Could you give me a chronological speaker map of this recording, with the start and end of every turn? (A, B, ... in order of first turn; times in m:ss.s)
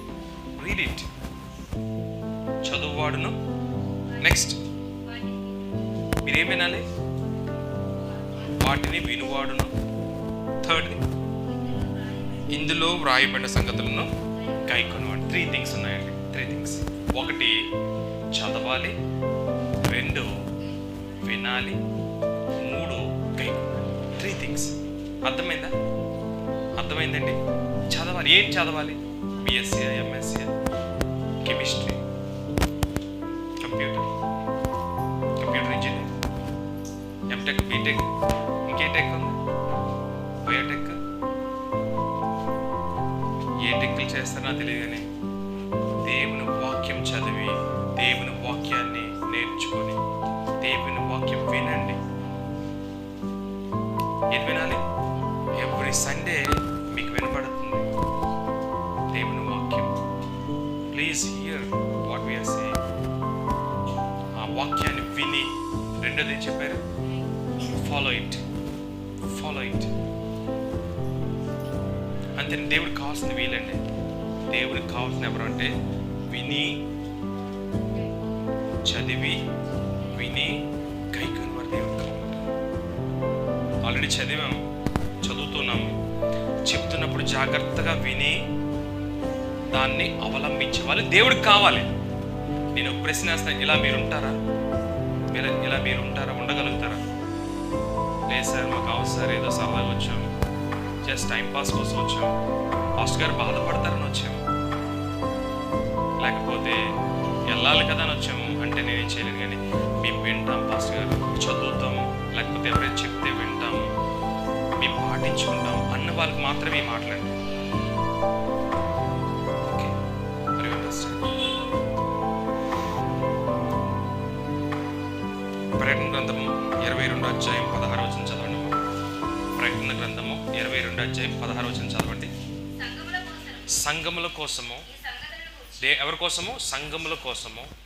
0:00.6-0:01.1 A
0:02.6-0:03.4 A
0:04.2-0:04.6 A
0:05.0-0:05.6 B
0:06.2-0:06.8 A
0:08.5-0:09.7 A
0:10.6-0:11.0 A
0:11.8-0:12.4 B
0:12.5-0:17.6 A
0:18.3-0:18.9 A
0:19.8-0:20.3 A
0:21.2-0:21.8 A
0:22.6-0:24.7 A
0:25.2-0:25.7 A
0:26.8-0:27.4 A
0:27.9-0:30.5 A
0:31.4-0:32.0 A
0:33.6-0:34.1 A
0:35.4-0:36.1 A
0:37.3-0:38.1 A
0:38.7-0:39.4 A
0:40.4-0:41.0 A
0:43.6-0:45.0 A
0:46.0-0:50.0 A
0:50.6-0:52.0 A
0:54.3-0:54.8 A
0:55.6-0:56.4 A
0:56.9-0:57.8 A
0:59.1-0:59.9 A
1:00.9-1:02.8 A
1:04.4-1:05.5 A
1:06.0-1:06.8 A
1:07.6-1:08.4 A
1:09.3-1:09.9 A
1:12.4-1:13.8 A
1:14.5-1:15.7 A
1:16.3-1:16.8 A
1:18.8-1:19.4 A
1:20.0-1:22.4 A
1:23.8-1:24.6 A
1:25.2-1:25.9 A
1:26.7-1:28.4 A
1:29.7-1:31.9 A
1:32.7-1:34.4 A
1:35.3-1:37.0 A
1:38.3-1:40.3 A
1:41.0-1:42.3 A
1:43.0-1:44.4 A
1:46.2-1:46.8 A
1:47.5-1:53.9 A
1:54.8-1:57.3 A
1:59.6-1:59.9 A
2:00.6-2:01.3 A
2:05.8-2:08.8 A
2:09.6-2:12.3 A
2:12.8-2:13.8 B
2:13.7-2:14.9 A
2:14.9-2:15.9 B
2:15.8-2:17.7 A